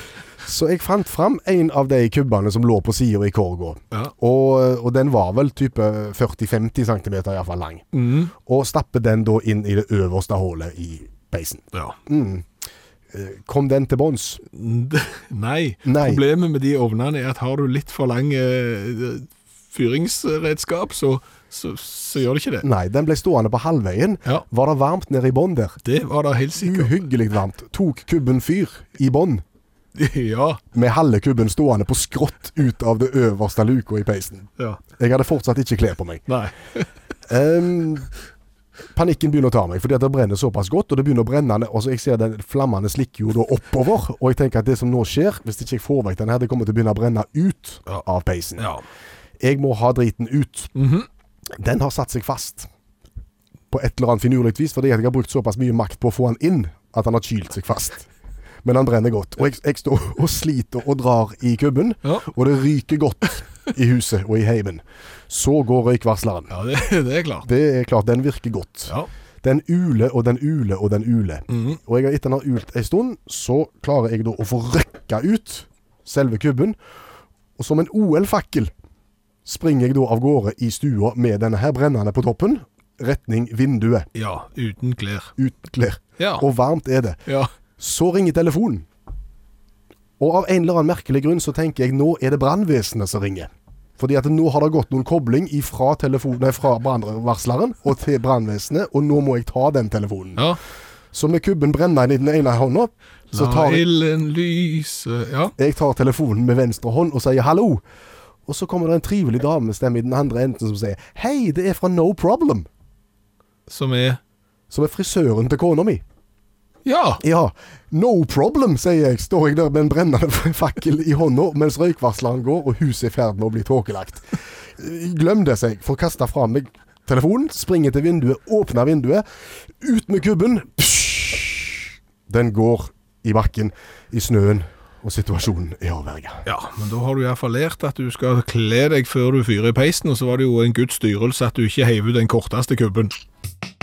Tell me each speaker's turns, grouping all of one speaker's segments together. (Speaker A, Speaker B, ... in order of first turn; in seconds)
Speaker A: 0.4-12.5, 13.1-14.4, 15.8-16.2, 22.6-25.8, 26.6-29.4, 30.7-36.3, 37.3-38.1, 38.9-48.7, 49.4-50.7, 51.6-52.7, 53.7-58.1, 58.6-66.5, 67.5-76.8, 77.6-78.7, 79.5-84.1, 85.4-87.2, 87.8-88.9, 90.2-100.4, 101.1-103.9, 105.6-107.8, 108.5-112.7, 114.7-116.0, 117.2-136.4
Speaker B: 7.9-8.3, 14.5-22.7, 25.8-27.0, 30.0-30.6, 36.3-36.9, 48.6-48.8, 50.8-51.1, 66.5-67.5, 71.5-71.8, 84.1-85.3, 86.2-86.5, 103.3-105.5, 113.7-114.2, 116.8-117.2, 136.5-143.1